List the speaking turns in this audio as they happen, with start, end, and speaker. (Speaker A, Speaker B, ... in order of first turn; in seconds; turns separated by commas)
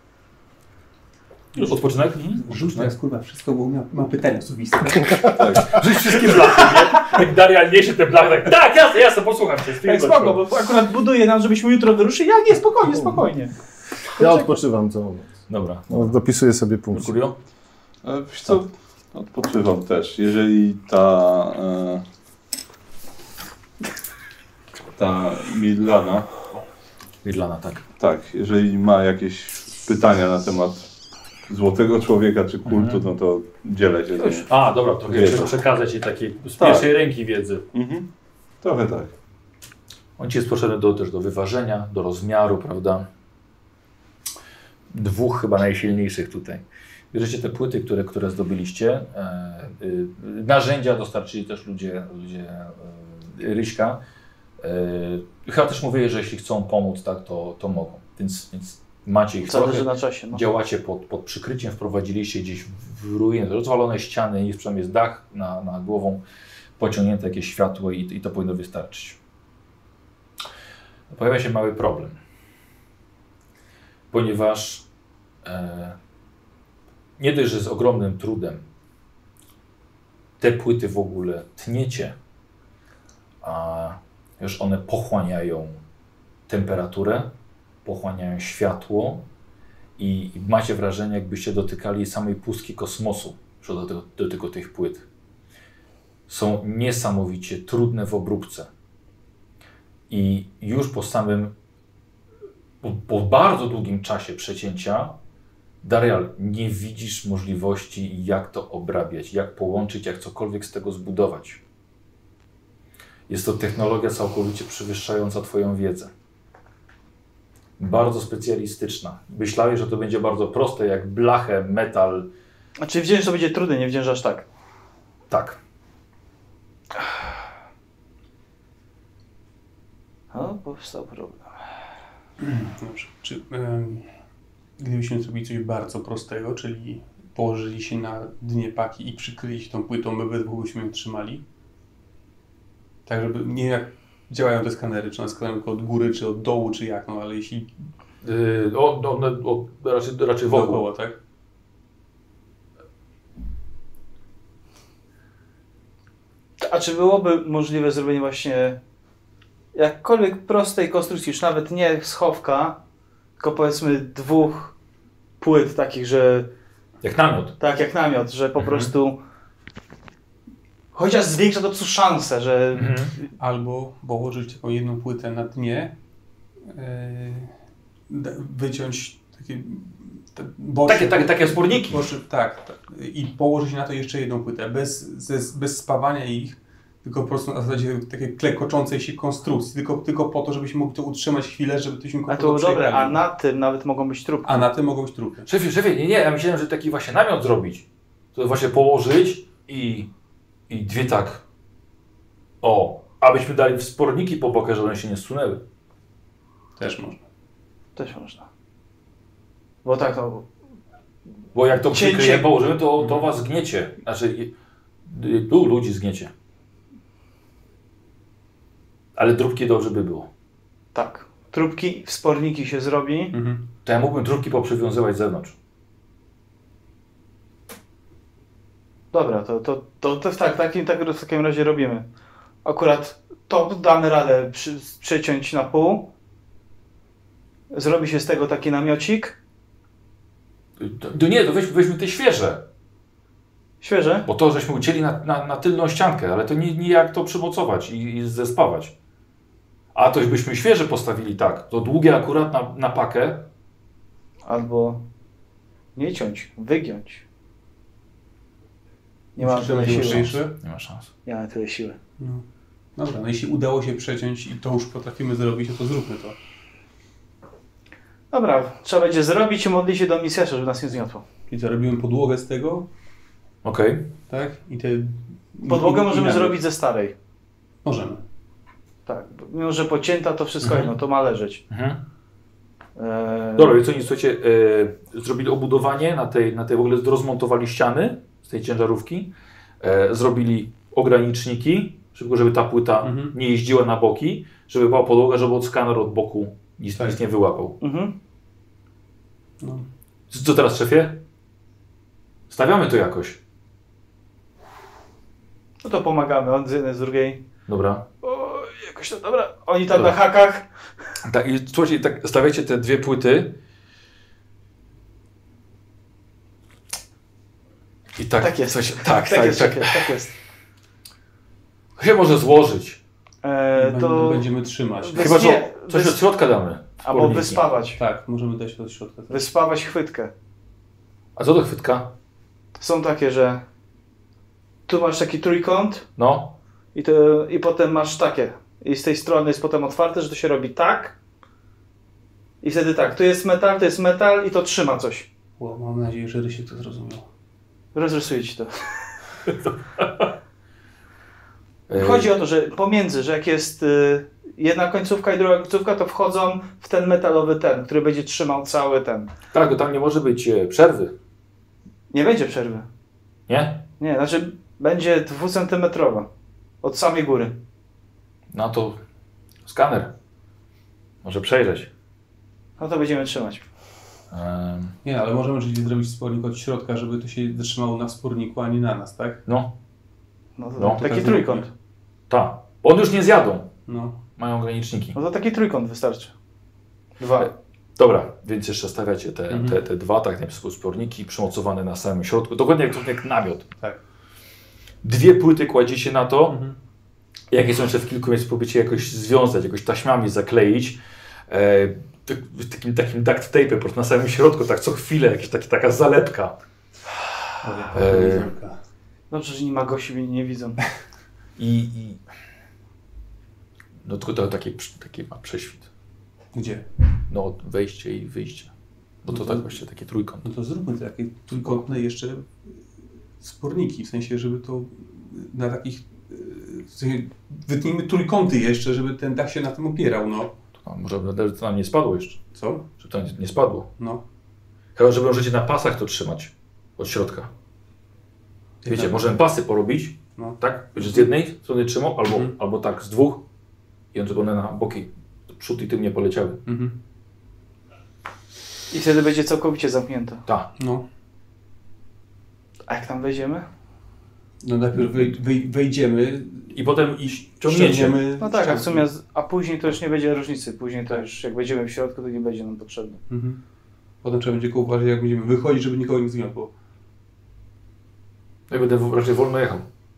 Speaker A: 1.6-2.9, Speaker B: 1.6-5.4, Speaker C: 5.3-6.2, Speaker A: 5.5-10.4, Speaker D: 9.8-13.5, Speaker D: 14.2-14.5, Speaker E: 14.2-15.3, Speaker A: 15.5-16.2, Speaker E: 15.9-17.1, Speaker A: 16.9-17.4, Speaker C: 18.0-22.0, Speaker C: 24.9-26.3, Speaker A: 27.2-27.8, Speaker C: 28.0-30.9, Speaker C: 31.5-34.5, Speaker A: 32.6-33.0, Speaker A: 34.4-37.6, Speaker C: 35.0-35.6, Speaker C: 36.6-36.9, Speaker C: 37.7-38.1, Speaker C: 38.6-39.1, Speaker A: 40.2-43.1, Speaker A: 44.9-54.0, Speaker A: 54.6-66.2, Speaker D: 59.4-60.4, Speaker A: 66.8-69.2, Speaker A: 71.1-72.2, Speaker A: 74.1-74.8, Speaker A: 75.4-76.0, Speaker A: 77.2-78.6, Speaker A: 80.4-82.1, Speaker A: 83.4-85.8, Speaker A: 86.5-87.3, Speaker A: 87.8-89.3, Speaker A: 90.0-95.0, Speaker A: 96.3-98.7, Speaker A: 100.1-101.5, Speaker A: 102.8-105.2, Speaker A: 105.8-111.6, Speaker A: 113.3-116.1, Speaker A: 117.8-122.3, Speaker D: 122.8-124.5, Speaker A: 125.3-125.6, Speaker D: 130.3-131.5, Speaker B: 132.4-134.1, Speaker B: 134.8-141.4, Speaker B: 143.1-147.7, Speaker A: 148.2-150.8, Speaker B: 150.5-151.2, Speaker D: 156.6-158.8, Speaker D: 159.7-162.8, Speaker D: 163.4-164.7, Speaker D: 165.4-166.5, Speaker A: 167.0-167.6, Speaker D: 167.6-169.2, Speaker B: 168.6-168.8, Speaker D: 170.9-173.0, Speaker A: 172.7-173.1, Speaker B: 173.4-175.9, Speaker B: 176.7-177.5, Speaker B: 178.1-193.2, Speaker A: 180.8-182.0, Speaker D: 192.3-194.7, Speaker B: 194.4-195.5, Speaker A: 195.4-200.1, Speaker A: 200.7-201.4, Speaker A: 202.6-205.6, Speaker B: 206.8-207.2, Speaker D: 207.9-208.5, Speaker D: 209.8-210.5, Speaker A: 211.6-214.5, Speaker D: 211.9-212.5, Speaker A: 215.1-216.3, Speaker A: 219.2-220.3, Speaker D: 220.9-223.3, Speaker B: 223.3-223.6, Speaker A: 223.8-225.6, Speaker D: 229.1-232.1, Speaker D: 232.6-236.1, Speaker D: 237.7-239.4, Speaker A: 240.8-242.7, Speaker D: 243.8-244.3, Speaker A: 244.3-248.9, Speaker A: 249.9-253.5, Speaker D: 254.4-255.1, Speaker D: 255.9-257.2, Speaker D: 259.4-260.3, Speaker B: 259.4-260.6, Speaker A: 259.8-261.1, Speaker D: 261.2-262.0, Speaker B: 262.2-262.4, Speaker B: 262.9-266.4, Speaker D: 268.3-271.3, Speaker B: 271.5-272.9, Speaker A: 273.6-274.1, Speaker B: 274.3-276.6, Speaker D: 275.7-277.1, Speaker B: 277.8-278.2, Speaker D: 279.1-281.6, Speaker B: 280.6-280.9, Speaker A: 281.7-282.0, Speaker D: 282.9-283.8, Speaker A: 283.6-297.8, Speaker B: 293.0-293.3, Speaker D: 297.8-298.1, Speaker A: 300.3-301.2, Speaker A: 302.5-303.4, Speaker D: 305.8-307.4, Speaker A: 307.7-308.1, Speaker D: 308.2-310.7, Speaker A: 311.2-313.6, Speaker A: 318.2-320.1, Speaker D: 318.4-320.3, Speaker A: 322.0-323.0, Speaker D: 323.4-326.2, Speaker B: 323.7-325.5, Speaker A: 325.1-327.6, Speaker D: 327.0-328.0, Speaker B: 327.9-329.5, Speaker D: 329.3-330.3, Speaker A: 331.4-332.1, Speaker D: 332.8-333.6, Speaker D: 334.9-336.1, Speaker A: 336.2-336.5, Speaker D: 336.9-341.1, Speaker D: 342.6-345.3, Speaker B: 345.6-347.2, Speaker D: 347.9-348.7, Speaker A: 350.0-350.2, Speaker A: 351.9-352.3, Speaker D: 351.9-359.3, Speaker A: 359.5-361.1, Speaker D: 362.1-362.9, Speaker A: 363.5-363.8, Speaker D: 364.0-366.3, Speaker D: 366.8-367.6, Speaker A: 368.5-369.0, Speaker A: 369.6-370.1, Speaker A: 371.2-371.9, Speaker D: 372.8-373.6, Speaker A: 374.3-374.9, Speaker B: 375.0-379.4, Speaker A: 379.4-379.7, Speaker D: 380.6-381.7, Speaker A: 380.8-381.1, Speaker B: 380.9-381.7, Speaker A: 382.3-383.7, Speaker B: 383.9-384.2, Speaker A: 384.4-385.2, Speaker D: 385.1-386.3, Speaker B: 387.2-387.5, Speaker A: 387.4-393.7, Speaker B: 389.5-389.8, Speaker A: 395.0-396.6, Speaker B: 396.5-396.8, Speaker A: 397.5-406.6, Speaker B: 407.6-408.8, Speaker A: 407.9-408.5, Speaker D: 409.3-410.8, Speaker A: 411.6-412.2, Speaker A: 414.1-415.9, Speaker B: 416.5-416.9, Speaker A: 417.3-418.7, Speaker A: 419.2-420.5, Speaker B: 419.3-419.8, Speaker B: 420.4-422.8, Speaker B: 423.4-430.5, Speaker A: 430.8-432.4, Speaker B: 432.5-432.9, Speaker A: 433.0-433.9, Speaker B: 434.0-434.2, Speaker A: 434.9-437.5, Speaker B: 438.8-439.2, Speaker A: 438.9-443.4, Speaker B: 440.4-441.3, Speaker B: 442.2-442.6, Speaker A: 444.1-446.6, Speaker B: 446.6-446.9, Speaker D: 448.9-450.4, Speaker B: 450.8-451.0, Speaker D: 452.9-453.7, Speaker B: 454.6-459.1, Speaker A: 456.7-458.2, Speaker D: 458.4-463.2, Speaker B: 463.3-463.6, Speaker B: 464.2-466.7, Speaker A: 468.7-469.8